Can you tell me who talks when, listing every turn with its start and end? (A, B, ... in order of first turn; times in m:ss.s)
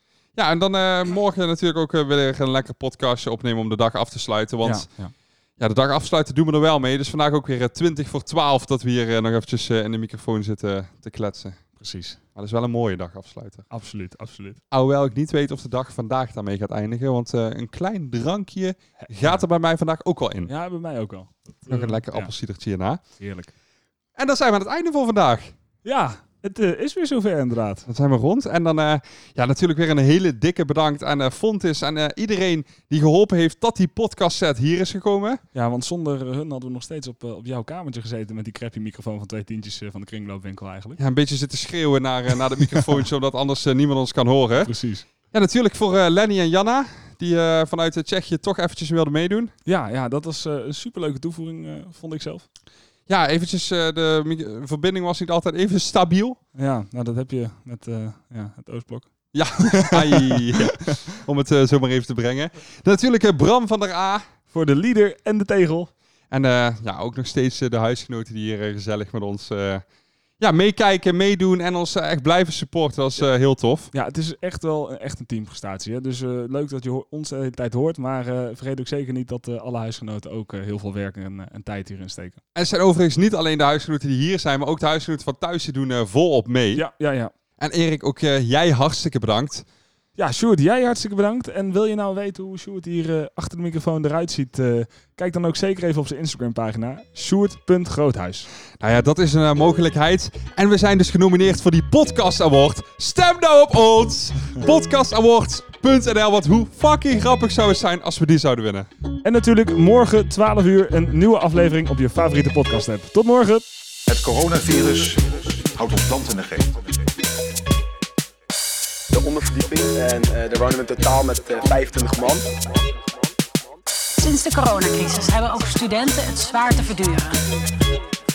0:00.3-0:04.9 A
0:04.6-0:05.1 B
0:05.6-0:11.6 A
0:11.8-0:12.2 B
0:12.3-0:13.6 A
0:13.7-0:14.6 B
0:14.7-0:20.5 A
0:19.0-0:19.4 B
0:20.4-0:22.3 B
0:21.7-0:23.0 A
0:23.2-0:23.5 B
0:24.2-0:25.5 A
0:25.8-0:27.8 B
0:27.9-0:35.4 A
0:35.5-0:41.0 B
0:41.0-0:44.7 A
0:42.7-0:43.0 B
0:44.6-0:45.0 B
0:45.3-0:49.5 A
0:49.6-0:52.4 B
0:53.1-0:56.4 A
0:56.5-1:00.6 B
0:59.3-1:04.2 A
1:04.5-1:05.9 B
1:06.3-1:09.8 A
1:10.4-1:13.9 A
1:13.9-1:22.4 B
1:22.5-1:26.8 A
1:26.7-1:27.3 B
1:27.6-1:29.6 A
1:30.2-1:38.5 B
1:38.8-1:48.9 A
1:49.2-1:53.6 B
1:54.1-1:56.8 C
1:59.1-2:02.6 D
2:04.2-2:07.4 E